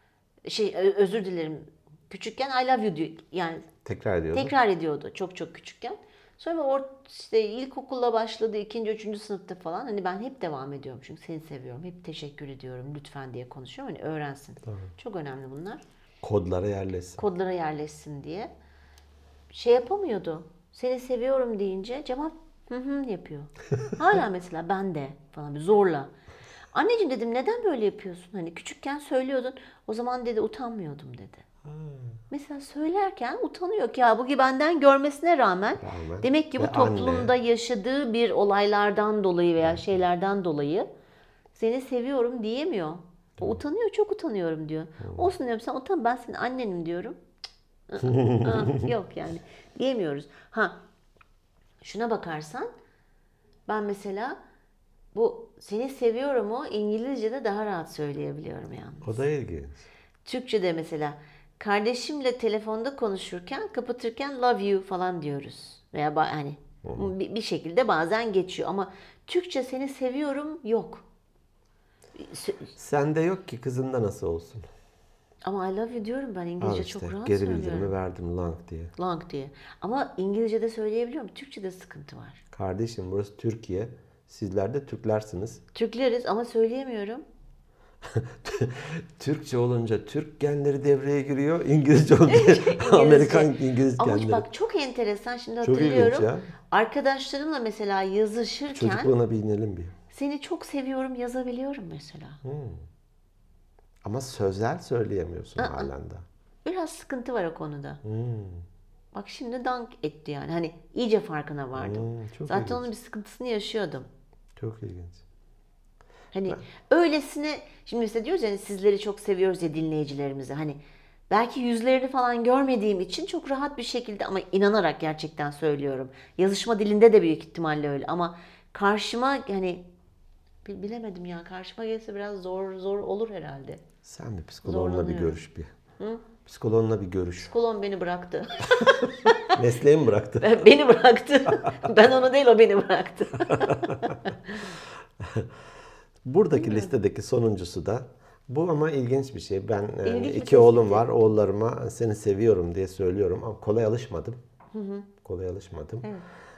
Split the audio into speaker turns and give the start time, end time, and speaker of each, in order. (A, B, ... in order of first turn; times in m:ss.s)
0:00.4-0:03.7 A
0:03.8-0:04.5 B
0:04.3-0:15.8 A
0:16.2-0:17.2 B
0:17.2-0:18.5 A
0:19.5-0:26.1 A
0:26.7-0:31.4 A
0:31.6-0:32.2 B
0:32.3-0:40.9 A
0:35.8-0:37.3 B
0:41.6-0:47.2 A
0:45.0-0:45.3 B
0:47.9-0:50.8 A
0:48.0-0:48.9 B
0:51.8-0:52.7 A
0:53.7-0:54.4 A
0:55.1-0:59.2 A
0:59.0-0:59.8 B
1:00.2-1:11.0 A
1:06.8-1:07.1 B
1:12.2-1:12.7 A
1:12.8-1:14.6 B
1:15.4-1:17.9 A
1:16.6-1:19.0 B
1:19.0-1:22.4 A
1:22.5-1:25.6 B
1:25.7-1:27.2 A
1:28.0-1:34.5 B
1:32.3-1:39.1 A
1:35.6-1:36.5 B
1:38.7-1:40.0 B
1:40.1-1:42.4 A
1:42.4-1:42.9 B
1:44.0-1:46.3 B
1:45.6-1:45.9 A
1:46.6-1:48.0 A
1:48.0-1:48.7 B
1:49.1-1:54.1 A
1:51.8-1:52.9 B
1:54.6-1:55.2 B
1:56.3-2:09.9 A
2:10.6-2:13.8 A
2:14.0-2:15.7 B
2:14.6-2:15.4 A
2:16.0-2:16.2 A
2:16.5-2:17.5 B
2:17.4-2:19.6 A
2:19.4-2:20.7 B
2:20.4-2:24.7 A
2:23.5-2:24.2 B
2:25.2-2:25.5 B
2:26.2-2:34.4 B
2:26.6-2:26.9 A
2:30.0-2:31.1 A
2:34.7-2:35.1 A
2:35.2-2:36.1 B